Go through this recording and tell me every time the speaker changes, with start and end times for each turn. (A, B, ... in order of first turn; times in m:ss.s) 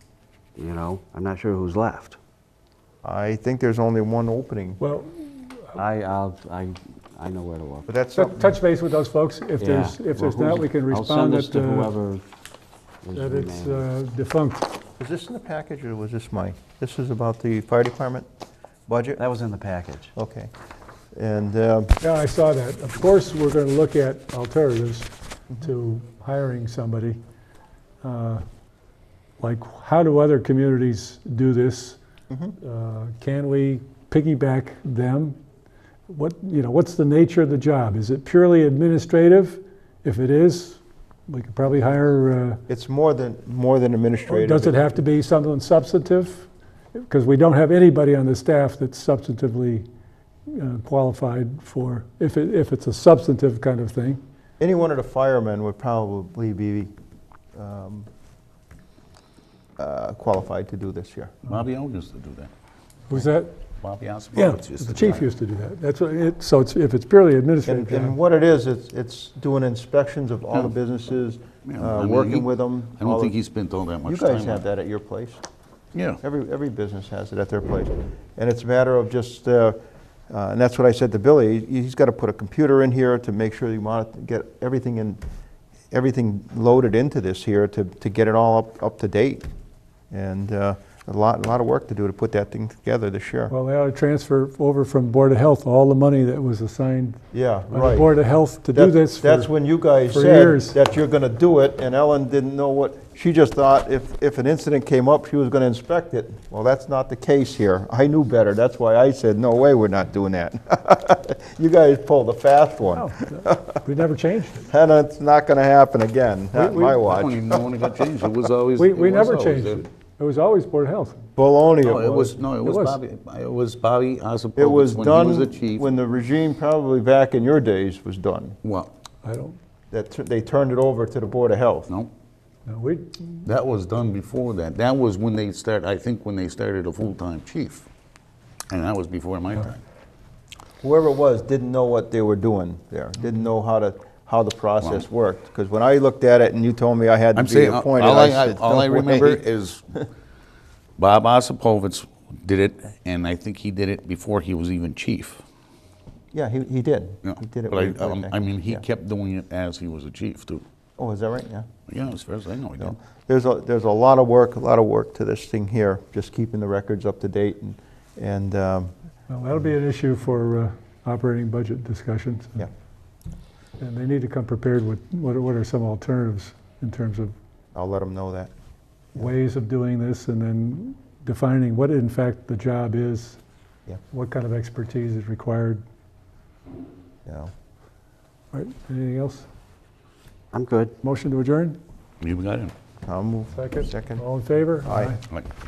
0:00.6-0:02.2 A
0:03.0-0:04.8 B
0:04.8-0:05.8 C
0:05.8-0:07.9 A
0:07.9-0:08.6 B
0:08.2-0:11.9 C
0:09.6-0:12.2 A
0:13.0-0:13.9 A
0:13.1-0:14.7 C
0:15.0-0:18.3 B
0:18.9-0:19.2 B
0:19.2-0:20.1 A
0:20.1-0:20.5 B
0:21.1-0:22.0 B
0:22.0-0:27.2 C
0:28.0-0:28.4 C
0:29.4-0:32.0 C
0:32.3-0:32.6 B
0:32.6-0:35.4 C
0:36.1-0:42.6 C
0:42.7-0:45.0 B
0:44.3-0:49.9 C
0:50.5-0:54.2 C
0:54.6-0:56.9 B
0:57.6-0:58.1 B
0:59.8-1:01.3 B
1:01.5-1:02.5 D
1:03.1-1:03.6 C
1:03.8-1:05.3 D
1:04.4-1:08.2 C
1:07.6-1:13.4 B
1:11.6-1:14.6 D
1:14.0-1:15.4 B
1:15.9-1:16.2 D
1:16.2-1:19.8 B
1:20.3-1:25.2 B
1:25.9-1:29.5 B
1:30.1-1:33.5 B
1:33.5-1:39.5 C
1:37.3-1:38.1 B
1:38.7-1:53.8 B
1:40.1-1:40.8 C
1:52.9-1:54.7 C
1:54.6-1:57.4 B
1:56.5-1:57.0 C
1:57.0-1:59.8 D
1:58.8-2:01.3 C
2:01.4-2:02.4 B
2:01.8-2:05.9 D
2:02.5-2:03.0 C
2:04.6-2:08.6 B
2:08.6-2:08.9 D
2:09.2-2:09.6 C
2:09.9-2:11.9 B
2:12.7-2:13.3 C
2:13.4-2:17.8 D
2:18.7-2:19.8 D
2:20.8-2:29.4 B
2:24.8-2:25.1 D
2:27.4-2:29.8 D
2:31.0-2:35.4 D
2:36.3-2:38.8 B
2:37.2-2:40.6 D
2:41.0-2:41.7 B
2:41.9-2:43.0 D
2:42.8-2:49.0 B
2:49.3-2:52.7 C
2:53.8-2:57.4 C
2:57.7-2:58.5 B
2:59.2-3:03.4 C
3:04.1-3:05.8 C
3:07.3-3:07.5 B
3:08.5-3:09.5 C
3:10.5-3:10.9 A
3:11.0-3:11.8 C
3:12.2-3:12.7 D
3:13.0-3:14.2 B
3:13.5-3:15.2 C
3:14.8-3:15.2 B